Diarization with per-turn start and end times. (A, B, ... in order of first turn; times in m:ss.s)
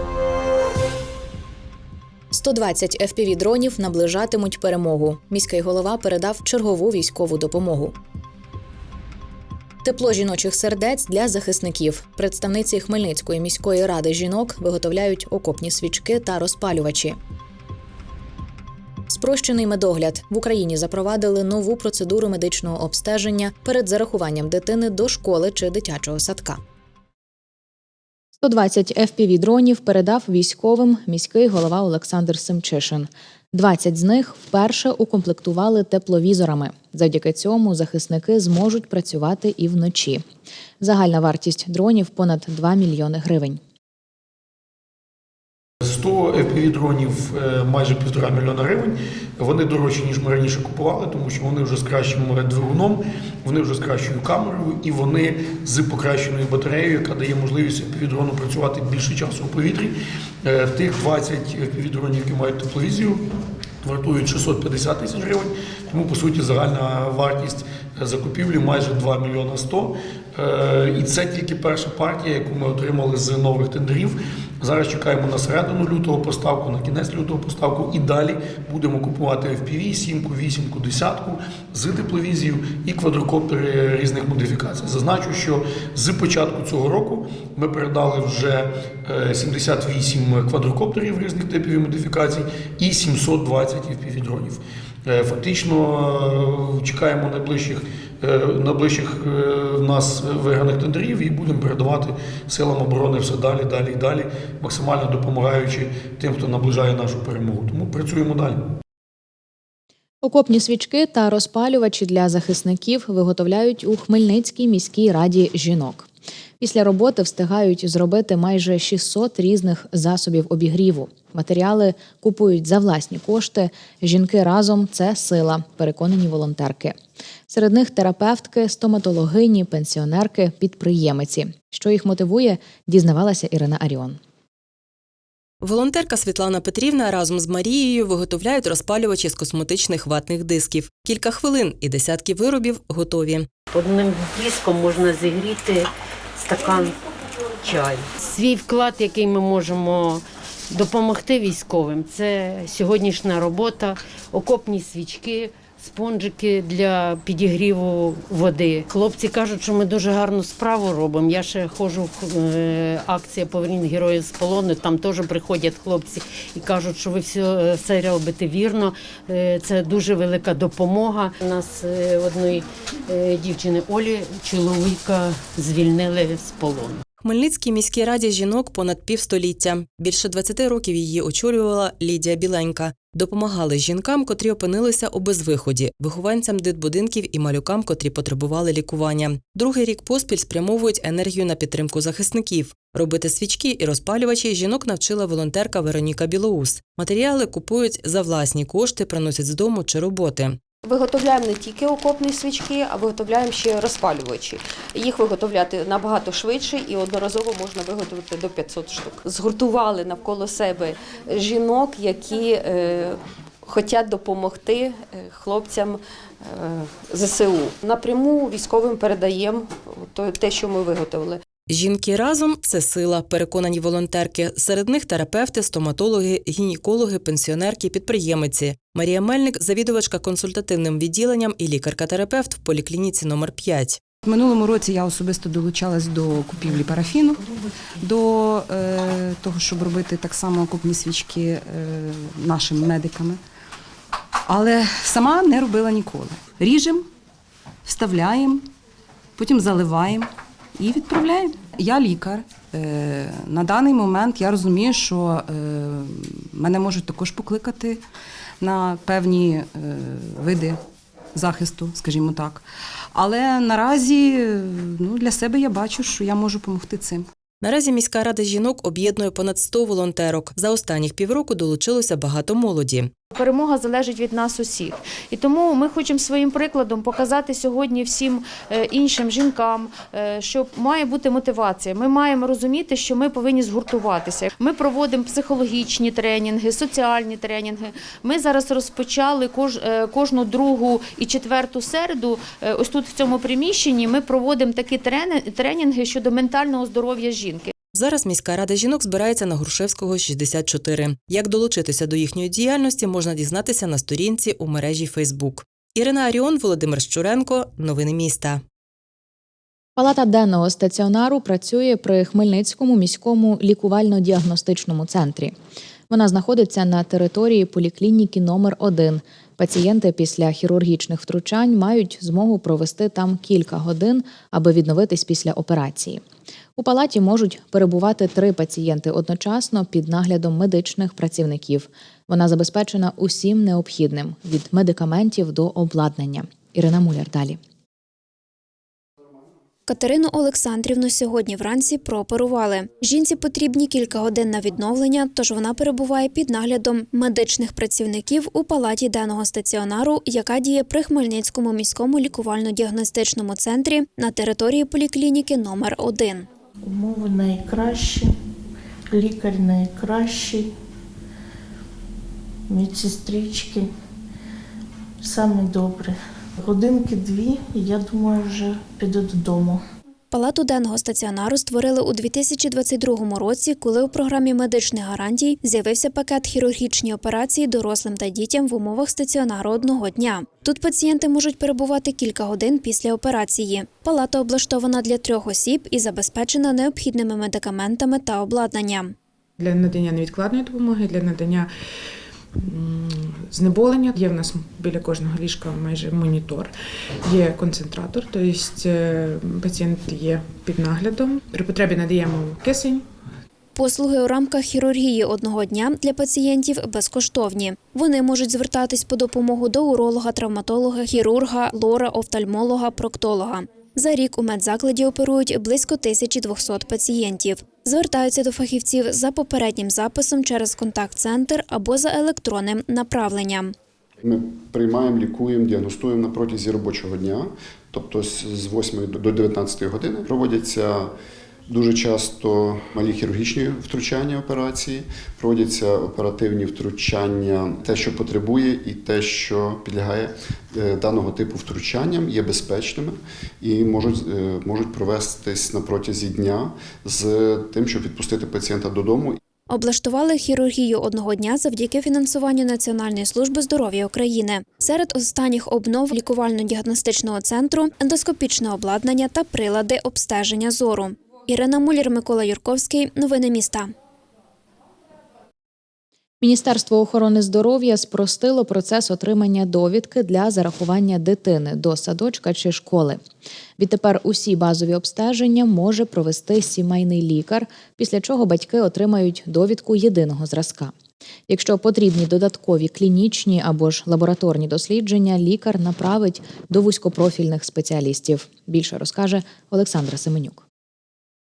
0:02.3-0:08.0 A
0:09.8-0:17.2 A
0:19.1-0:26.6 A
0:28.4-0:40.2 A
0:40.8-0:43.6 A
0:45.8-1:03.2 B
1:03.8-1:48.6 B
1:50.2-1:56.1 A
1:56.6-2:07.0 A
2:07.5-2:14.2 A
2:15.6-2:23.5 C
2:23.7-2:27.0 D
2:27.6-2:57.0 D
2:57.2-3:20.6 C
3:20.9-3:33.2 E
3:33.7-3:36.0 E
3:36.8-3:41.4 E
3:41.7-3:54.0 C
3:54.3-3:57.4 F
3:58.0-4:03.4 F
4:04.5-4:07.0 F
4:07.9-4:08.6 F
4:09.4-4:10.3 F
4:10.8-4:18.0 F
4:18.6-4:20.8 F
4:21.4-4:22.6 F
4:23.1-4:27.2 F
4:27.6-4:33.1 C
4:33.3-4:57.7 G
4:57.9-5:08.6 C
5:10.0-5:15.6 A
5:16.1-5:26.2 A
5:26.8-5:37.6 A
5:39.9-5:56.5 H
5:56.8-5:58.3 I
5:59.1-6:00.7 I
6:02.7-6:03.9 I
6:05.2-6:09.8 I
6:10.3-6:29.1 H
6:29.6-6:31.7 J
6:32.7-6:36.7 J
6:37.2-6:43.0 J
6:43.8-7:03.8 H
7:04.2-7:11.1 K
7:11.7-7:29.4 K
7:29.7-7:43.9 H
7:46.4-7:53.2 A
7:53.8-8:00.9 A
8:01.5-8:10.6 A